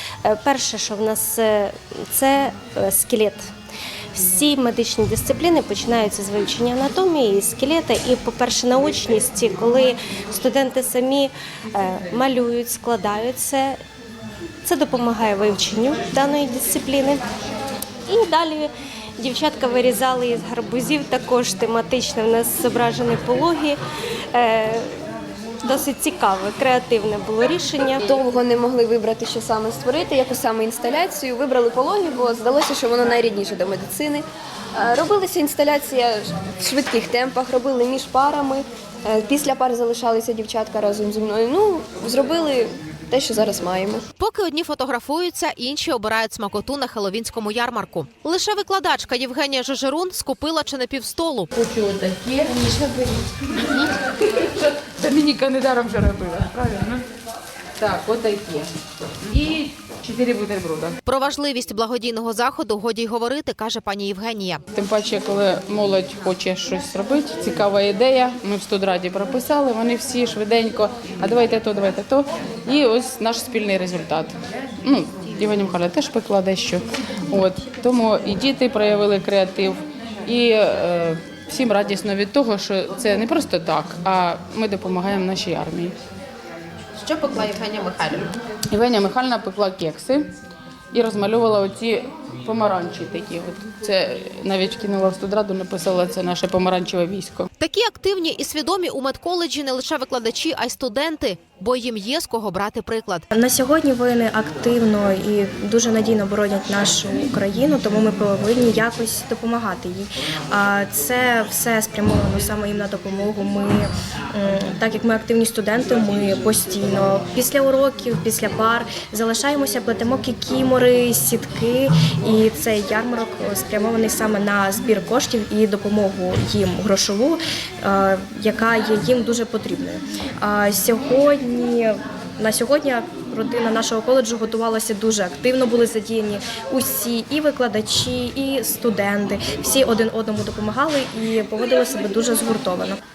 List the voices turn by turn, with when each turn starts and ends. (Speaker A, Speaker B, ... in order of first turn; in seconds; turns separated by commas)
Speaker A: 0.2-3.5, Speaker A: 4.1-13.8, Speaker A: 14.6-17.2, Speaker A: 18.1-23.8, Speaker A: 24.3-24.9, Speaker A: 25.6-28.0, Speaker B: 28.0-44.0, Speaker C: 44.2-51.5, Speaker D: 51.5-57.0, Speaker D: 57.8-58.7, Speaker D: 59.2-61.0, Speaker C: 61.0-64.6, Speaker D: 64.7-86.0, Speaker C: 86.9-88.3, Speaker D: 88.7-90.3, Speaker D: 90.9-97.5, Speaker C: 97.6-103.3, Speaker E: 103.3-143.0